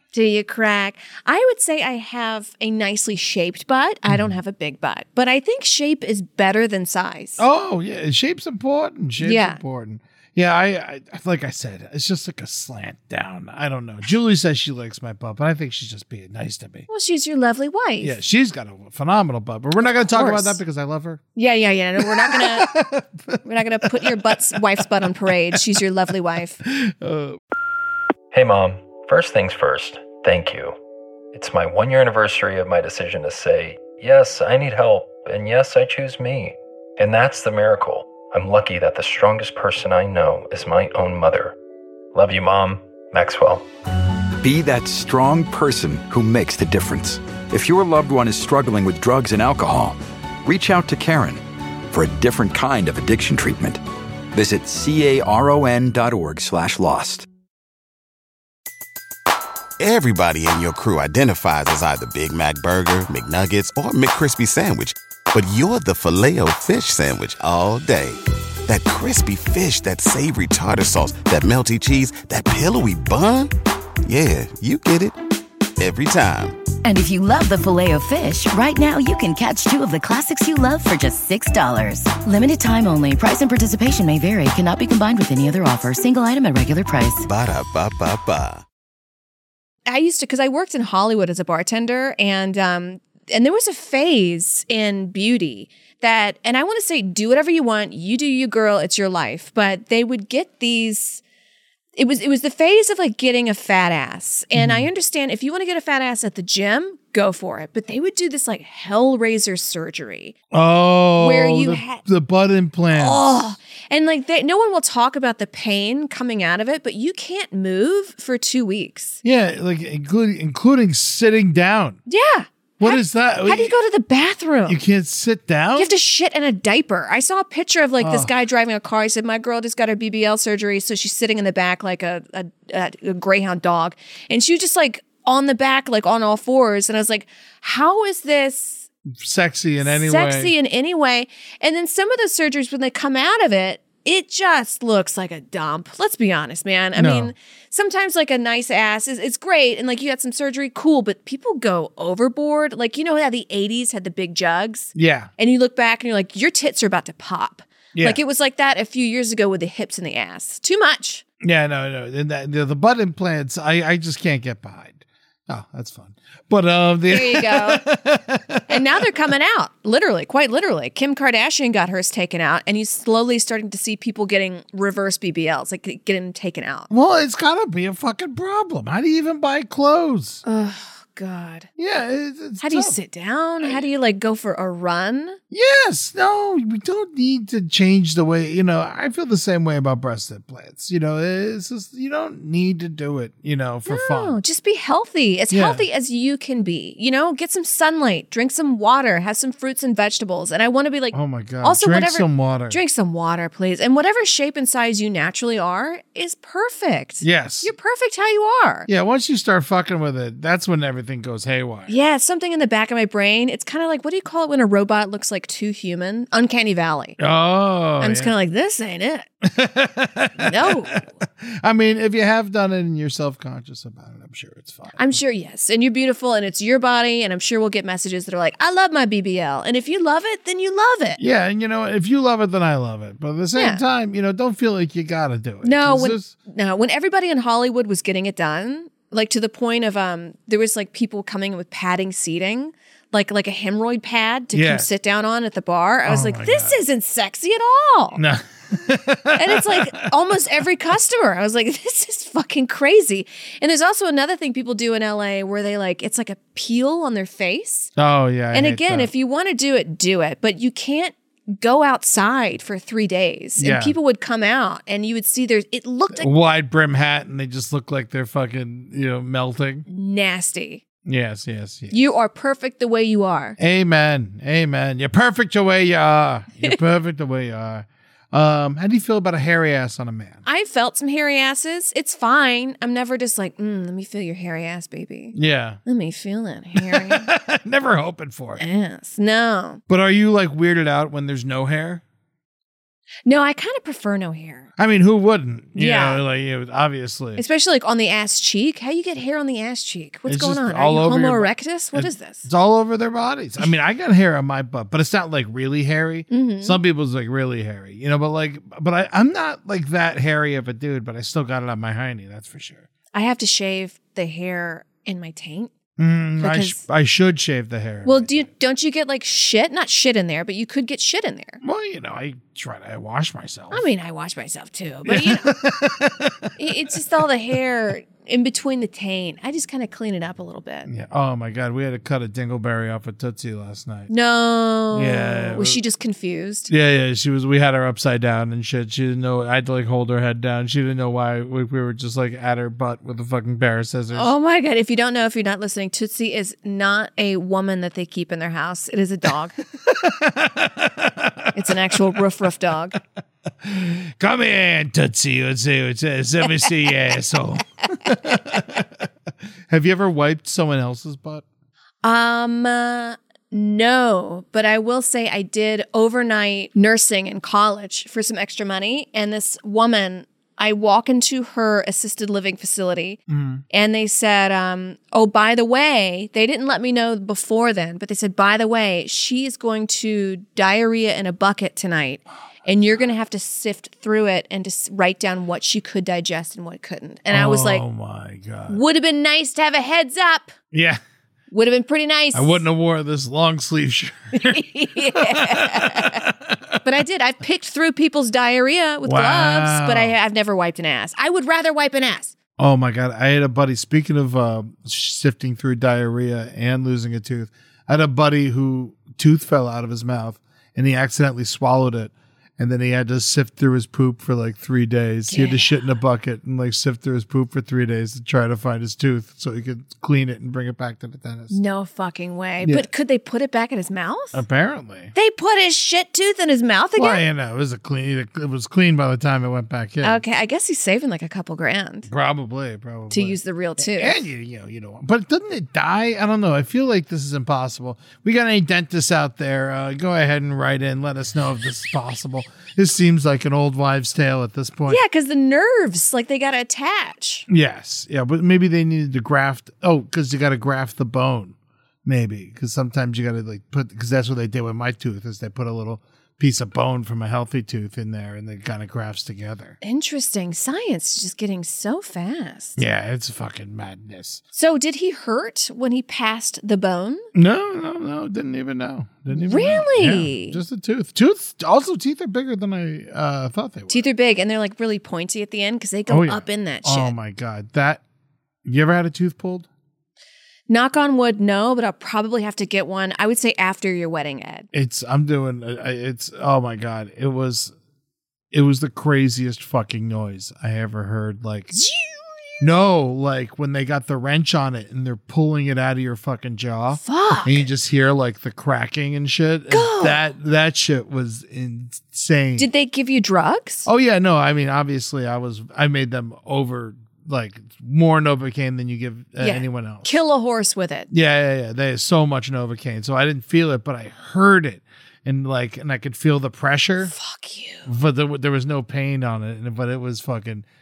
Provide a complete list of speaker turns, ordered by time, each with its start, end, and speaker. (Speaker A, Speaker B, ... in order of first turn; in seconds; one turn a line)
Speaker A: 0.1-7.4
Speaker B: 7.4-16.9
Speaker A: 9.2-9.6
Speaker A: 16.9-18.2
Speaker B: 18.0-21.2
Speaker A: 19.8-20.6
Speaker A: 21.4-22.7
Speaker B: 22.0-24.9
Speaker A: 23.4-26.6
Speaker B: 26.6-27.4
Speaker C: 28.3-30.8
Speaker C: 31.3-41.6
Speaker C: 42.1-43.7
Speaker D: 44.4-53.8
Speaker D: 54.3-57.2
Speaker E: 59.8-73.5
Speaker E: 74.0-75.2
Speaker E: 75.8-76.6
Speaker F: 76.8-87.2
Speaker E: 87.2-88.6
Speaker A: 89.9-101.2
Speaker A: 102.0-110.3
Speaker B: 104.5-104.9
Speaker B: 110.5-113.4
Speaker A: 111.2-112.0
Speaker A: 112.9-119.2
Speaker B: 119.2-122.0
Speaker A: 122.1-124.8
Speaker B: 122.8-123.7
Speaker B: 124.7-125.9
Speaker A: 125.7-138.9
Speaker B: 128.0-128.3
Speaker B: 139.1-140.5
Speaker A: 139.8-161.2
Speaker B: 146.9-147.3
Speaker B: 154.9-155.3
Speaker B: 157.9-158.2
Speaker B: 161.4-168.9
Speaker A: 167.1-167.8
Speaker A: 168.7-176.9
Speaker B: 176.9-180.4
Speaker A: 180.4-181.7
Speaker B: 181.8-183.0
Speaker A: 182.6-185.4
Speaker B: 185.5-194.4
Speaker A: 193.9-208.9
Speaker B: 195.5-195.8
Speaker B: 201.1-202.8
Speaker B: 207.2-207.7
Speaker B: 208.9-211.9
Speaker A: 211.9-217.2
Speaker B: 217.2-218.3
Speaker A: 218.0-219.3
Speaker B: 219.4-225.2
Speaker A: 220.4-221.0
Speaker A: 224.9-231.2
Speaker B: 231.2-236.3
Speaker A: 233.6-233.8
Speaker A: 235.6-248.2
Speaker B: 244.5-244.9
Speaker B: 246.1-246.8
Speaker B: 248.1-250.0
Speaker A: 249.4-257.9
Speaker B: 257.9-259.1
Speaker A: 258.5-266.3
Speaker B: 263.6-263.9
Speaker B: 266.1-269.9
Speaker A: 269.9-270.8
Speaker B: 271.1-272.1
Speaker A: 271.9-273.6
Speaker B: 273.6-280.4
Speaker A: 280.4-287.3
Speaker B: 285.3-285.8
Speaker B: 286.8-288.6
Speaker A: 288.6-289.8
Speaker B: 289.9-292.0
Speaker A: 293.2-294.7
Speaker B: 294.8-297.4
Speaker A: 295.8-296.2
Speaker A: 297.4-302.5
Speaker B: 300.3-312.9
Speaker A: 306.3-306.8
Speaker A: 313.1-315.7
Speaker B: 316.0-318.5
Speaker A: 316.4-316.8
Speaker A: 318.1-321.6
Speaker B: 321.6-323.9
Speaker A: 323.7-325.5
Speaker B: 325.1-326.6
Speaker A: 326.6-330.9
Speaker B: 330.9-334.1
Speaker A: 334.1-336.7
Speaker B: 334.9-335.8
Speaker B: 336.7-344.3
Speaker A: 344.1-349.6
Speaker B: 349.8-352.2
Speaker A: 351.5-352.9
Speaker B: 353.6-359.1
Speaker B: 359.7-361.4
Speaker A: 362.0-373.2
Speaker B: 373.3-373.6
Speaker A: 373.7-387.9
Speaker B: 387.3-388.8
Speaker A: 388.7-390.6
Speaker B: 390.7-391.0
Speaker A: 391.5-392.6
Speaker B: 392.3-396.8
Speaker A: 394.4-396.2
Speaker A: 396.8-402.3
Speaker B: 399.1-400.2
Speaker B: 402.6-421.6
Speaker A: 415.3-415.8
Speaker A: 421.5-424.4
Speaker B: 422.6-422.9
Speaker B: 424.3-425.1
Speaker A: 425.1-427.2
Speaker B: 426.9-430.2
Speaker A: 430.0-432.1
Speaker B: 432.1-445.0
Speaker A: 433.1-434.2
Speaker A: 444.9-447.4
Speaker B: 447.5-459.8
Speaker A: 459.8-462.8
Speaker B: 462.8-464.4
Speaker A: 464.5-467.3
Speaker B: 467.3-474.1
Speaker A: 469.3-470.6
Speaker A: 473.9-477.1
Speaker B: 476.1-478.0
Speaker B: 478.6-479.7
Speaker A: 480.7-484.7
Speaker B: 484.7-487.7
Speaker B: 488.5-491.8
Speaker A: 491.7-492.6
Speaker B: 492.6-502.7
Speaker A: 497.0-497.6
Speaker A: 499.7-500.2
Speaker A: 502.6-503.9
Speaker B: 503.9-510.2
Speaker A: 509.4-511.1
Speaker B: 511.1-517.1
Speaker A: 517.0-517.9
Speaker B: 517.9-520.6